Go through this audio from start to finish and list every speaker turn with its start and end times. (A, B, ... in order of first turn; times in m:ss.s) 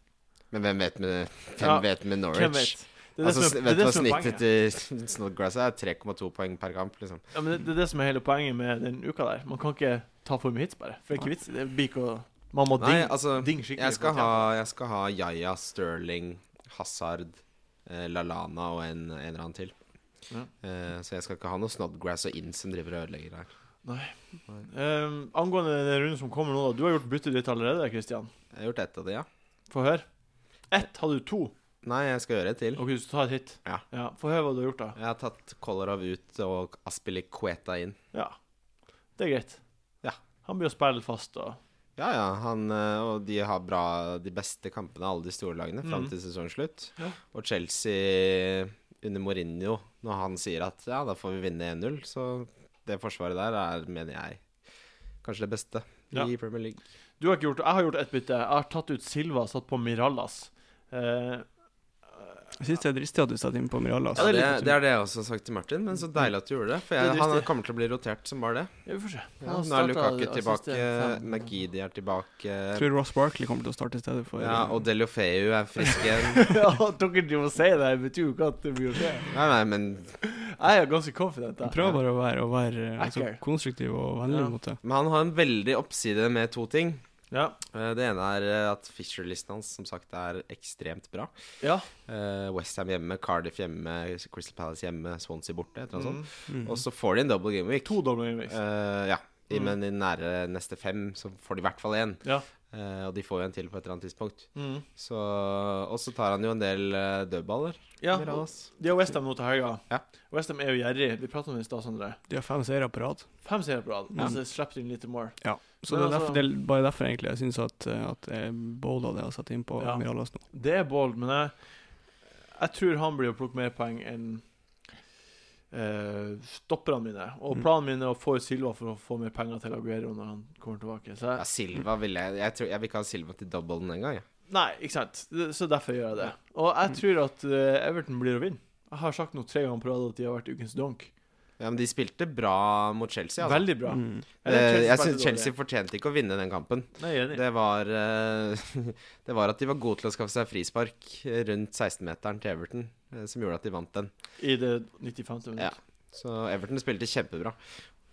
0:00.4-0:07.2 A
0:01.6-0:04.4 B
0:07.3-0:14.5 B
0:12.8-0:19.8 A
0:20.6-0:23.5 A
0:23.8-0:28.3 B
0:28.5-0:29.3 A
0:29.7-0:30.1 B
0:30.6-0:31.5 B
0:31.8-0:32.8 A
0:32.8-0:35.0 B
0:35.0-0:38.0 A
0:39.1-0:39.6 B
0:40.4-0:41.6 B
0:42.0-0:54.4 A
0:45.8-0:46.1 B
0:55.2-0:56.8 A
0:57.2-1:01.5 B
1:02.6-1:04.5 C
1:04.1-1:08.8 A
1:04.2-1:04.7 B
1:07.0-1:07.5 B
1:08.8-1:11.5 B
1:09.4-1:12.9 A
1:12.7-1:14.8 C
1:14.4-1:16.6 A
1:16.3-1:19.4 B
1:19.3-1:20.2 A
1:20.2-1:21.8 B
1:21.6-1:24.8 C
1:23.0-1:23.4 B
1:24.3-1:24.5 B
1:24.8-1:27.0 A
1:27.3-1:27.6 B
1:27.7-1:31.3 A
1:31.6-1:31.9 B
1:32.0-1:48.7 A
1:35.9-1:36.3 B
1:36.5-1:36.8 C
1:37.8-1:38.6 B
1:44.5-1:44.8 B
1:48.0-1:52.2 B
1:52.3-1:53.4 C
1:53.4-1:56.4 B
1:54.1-1:54.4 C
1:55.4-2:00.4 C
1:59.8-2:04.8 B
2:05.7-2:11.4 B
2:11.4-2:14.2 A
2:14.5-2:21.1 B
2:21.6-2:23.7 A
2:23.4-2:25.5 B
2:23.9-2:24.2 C
2:24.4-2:34.1 A
2:27.0-2:27.4 B
2:34.4-2:35.7 B
2:35.6-2:37.6 A